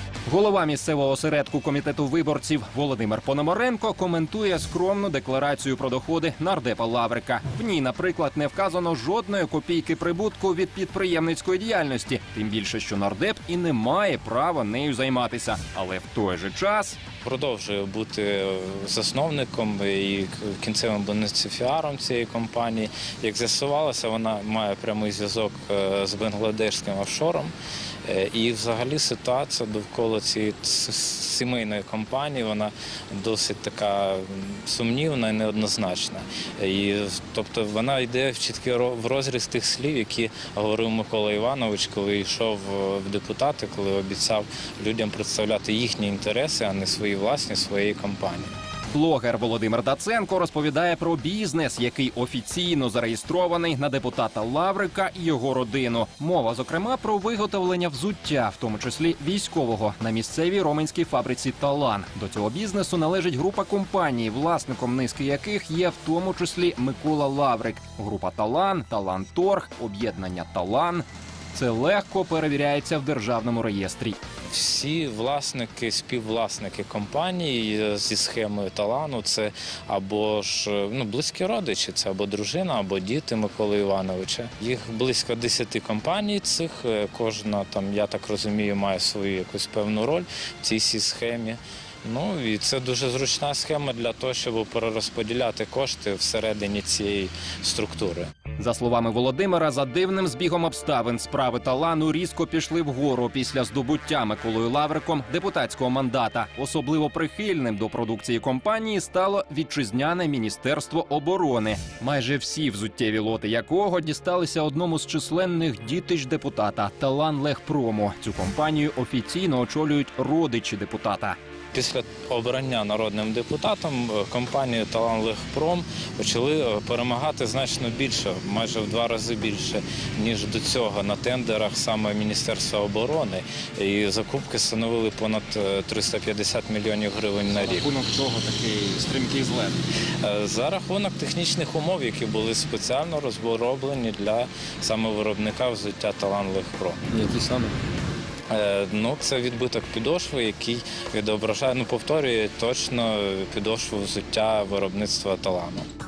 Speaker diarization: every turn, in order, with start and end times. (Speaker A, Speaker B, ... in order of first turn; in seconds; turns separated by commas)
Speaker A: 0.2-17.0, Speaker B: 17.2-27.5, Speaker B: 28.1-48.5, Speaker A: 48.9-74.2, Speaker B: 74.5-98.3, Speaker A: 98.6-121.4, Speaker B: 121.7-137.8, Speaker C: 137.5-139.8, Speaker B: 140.2-147.0, Speaker C: 147.1-147.7, Speaker B: 148.5-155.9